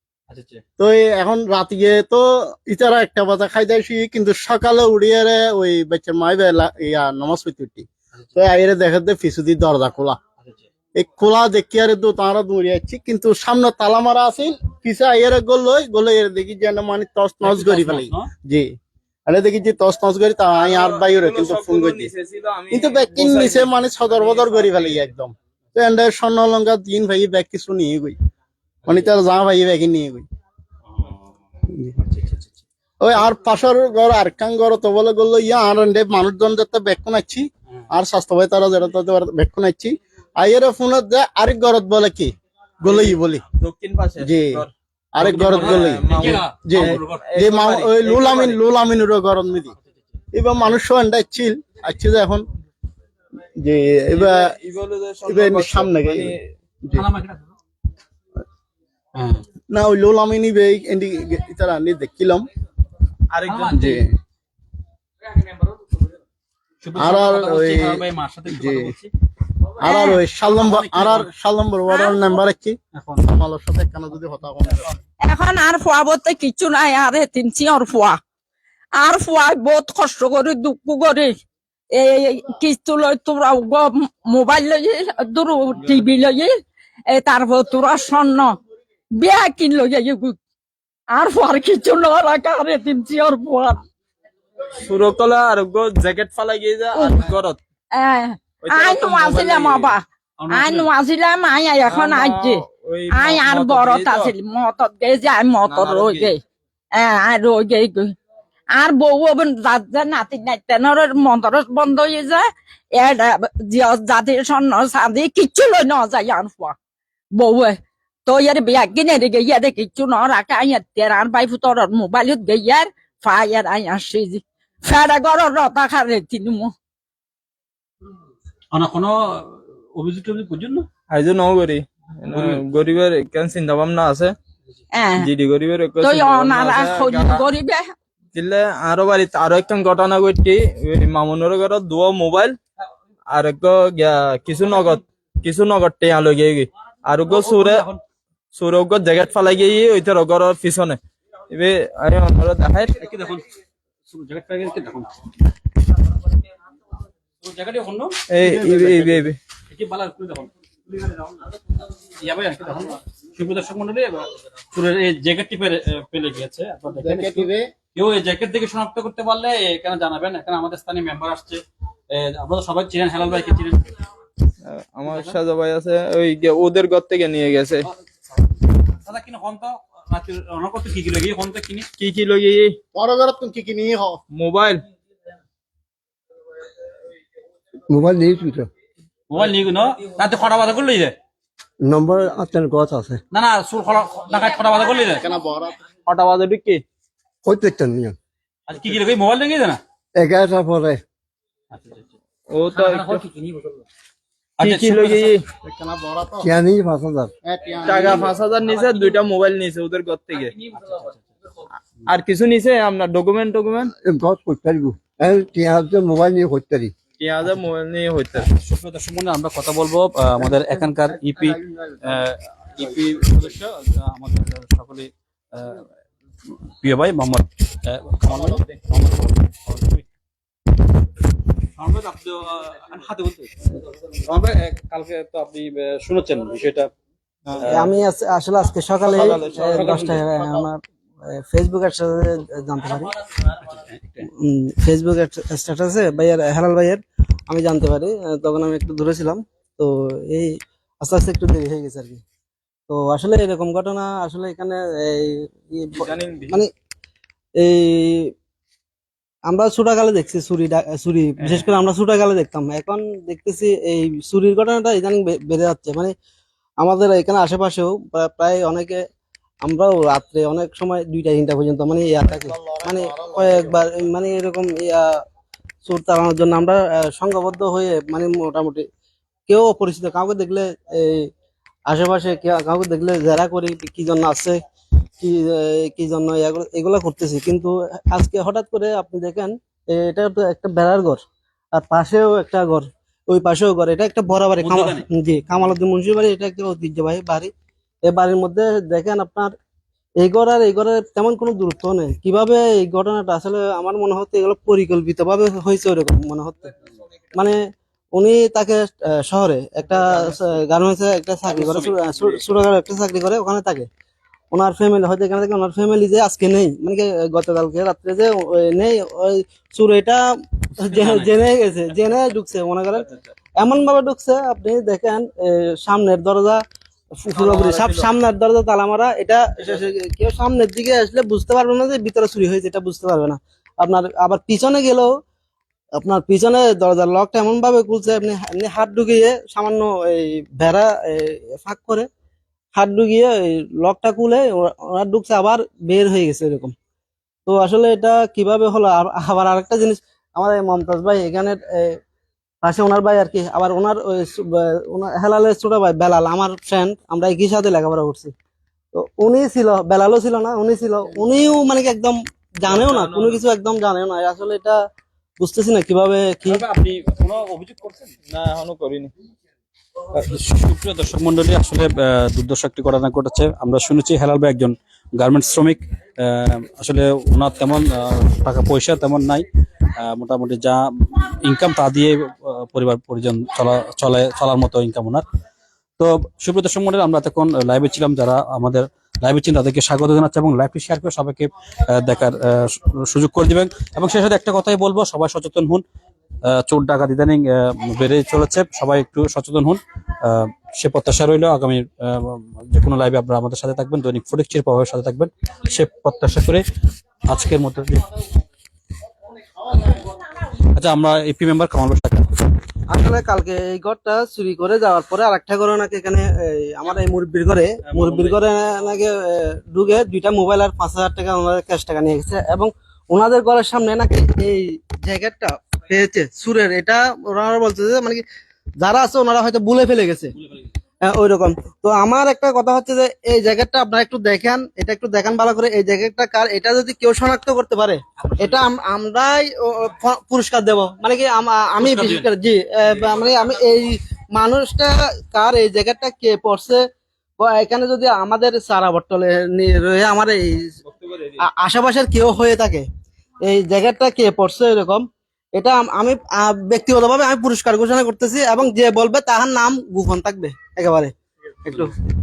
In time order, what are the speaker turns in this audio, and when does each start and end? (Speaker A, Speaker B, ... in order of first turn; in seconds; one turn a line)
Speaker A: 0.3-0.6
Speaker B: 0.8-10.2
Speaker B: 10.9-18.7
Speaker A: 17.4-18.2
Speaker B: 19.3-22.1
Speaker C: 20.5-25.0
Speaker B: 22.7-28.1
Speaker B: 28.9-30.2
Speaker A: 32.0-32.5
Speaker B: 33.0-43.4
Speaker C: 42.8-48.6
Speaker B: 44.2-49.7
Speaker A: 45.3-47.2
Speaker B: 50.3-52.5
Speaker B: 53.6-54.5
Speaker C: 54.1-56.4
Speaker B: 55.2-57.0
Speaker A: 56.9-57.5
Speaker A: 59.1-59.4
Speaker B: 59.7-62.5
Speaker C: 63.3-63.9
Speaker A: 63.5-63.9
Speaker B: 63.7-64.1
Speaker A: 66.8-69.1
Speaker B: 67.0-69.0
Speaker B: 69.8-74.9
Speaker D: 69.8-70.2
Speaker A: 70.4-71.3
Speaker D: 71.9-72.2
Speaker A: 73.0-73.2
Speaker D: 75.3-78.1
Speaker D: 79.0-81.3
Speaker D: 82.0-86.5
Speaker C: 85.8-86.0
Speaker D: 87.2-88.5
Speaker D: 89.2-90.3
Speaker D: 91.1-93.8
Speaker C: 94.8-97.6
Speaker D: 98.0-102.6
Speaker C: 98.6-99.9
Speaker A: 100.4-100.9
Speaker C: 101.8-104.3
Speaker D: 103.1-106.3
Speaker C: 105.7-106.3
Speaker D: 107.0-108.0
Speaker D: 108.8-112.4
Speaker D: 113.7-116.7
Speaker D: 117.4-117.7
Speaker D: 118.3-126.7
Speaker A: 128.7-130.9
Speaker C: 131.1-134.3
Speaker A: 132.3-132.6
Speaker C: 135.2-137.4
Speaker D: 136.0-137.8
Speaker C: 138.3-142.6
Speaker C: 143.3-147.9
Speaker A: 147.3-148.0
Speaker C: 148.5-151.0
Speaker C: 151.5-153.0
Speaker A: 153.0-153.4
Speaker A: 154.1-155.1
Speaker A: 157.4-160.5
Speaker C: 158.3-159.4
Speaker A: 162.2-173.8
Speaker B: 166.9-167.7
Speaker C: 174.6-177.9
Speaker A: 175.1-175.3
Speaker A: 178.9-181.9
Speaker C: 182.0-182.8
Speaker B: 182.9-184.2
Speaker C: 184.3-184.8
Speaker E: 187.9-188.7
Speaker A: 189.3-191.2
Speaker E: 191.8-193.2
Speaker A: 193.3-195.2
Speaker B: 195.0-195.8
Speaker C: 196.1-196.8
Speaker E: 197.4-198.2
Speaker A: 198.7-199.8
Speaker E: 200.1-201.0
Speaker A: 201.7-202.0
Speaker C: 202.5-203.2
Speaker A: 202.8-203.7
Speaker C: 204.6-205.4
Speaker A: 204.6-205.3
Speaker B: 205.6-206.5
Speaker E: 206.4-207.3
Speaker B: 207.4-208.3
Speaker C: 207.8-210.5
Speaker A: 210.7-211.2
Speaker C: 212.1-213.9
Speaker E: 214.0-216.9
Speaker C: 217.2-218.5
Speaker A: 218.4-225.8
Speaker E: 220.5-220.8
Speaker E: 221.4-221.8
Speaker A: 226.8-230.0
Speaker A: 231.8-236.9
Speaker A: 237.6-237.9
Speaker F: 237.6-240.8
Speaker C: 239.1-240.2
Speaker A: 239.7-240.5
Speaker F: 241.3-243.1
Speaker A: 243.6-244.2
Speaker F: 244.4-252.2
Speaker F: 252.9-256.7
Speaker C: 255.9-256.6
Speaker F: 257.6-258.3
Speaker F: 259.5-266.1
Speaker A: 261.4-261.7
Speaker F: 266.8-269.0
Speaker F: 269.6-275.1
Speaker B: 272.2-273.9
Speaker F: 275.8-278.8
Speaker F: 279.5-281.3
Speaker F: 281.9-284.6
Speaker F: 285.2-291.2
Speaker F: 291.7-297.5
Speaker A: 294.7-295.0
Speaker F: 298.1-299.5
Speaker F: 300.2-306.7
Speaker F: 307.3-307.6
Speaker F: 308.1-313.9
Speaker A: 310.2-310.5
Speaker A: 311.5-311.9
Speaker F: 314.5-320.2
Speaker F: 320.8-326.6
Speaker C: 321.0-321.2
Speaker F: 327.2-335.1
Speaker C: 327.4-328.0
Speaker F: 336.0-342.1
Speaker F: 342.7-346.7
Speaker F: 347.4-352.0
Speaker F: 352.6-358.3
Speaker F: 358.9-364.8
Speaker C: 362.6-363.4
Speaker F: 365.4-366.6
Speaker A: 366.5-368.1
Speaker C: 368.3-369.1
Speaker A: 370.1-379.4
Speaker A: 380.0-385.2
Speaker A: 386.0-395.8
Speaker A: 396.5-406.6
Speaker A: 407.3-408.0
Speaker A: 410.7-412.3
Speaker F: 412.9-428.2
Speaker A: 417.8-418.4
Speaker F: 428.8-430.3
Speaker F: 431.0-446.8
Speaker A: 438.2-438.6
Speaker A: 441.8-442.3
Speaker F: 447.4-450.6
Speaker C: 450.8-451.4
Speaker F: 451.4-452.8
Speaker F: 453.4-461.1
Speaker F: 461.6-461.9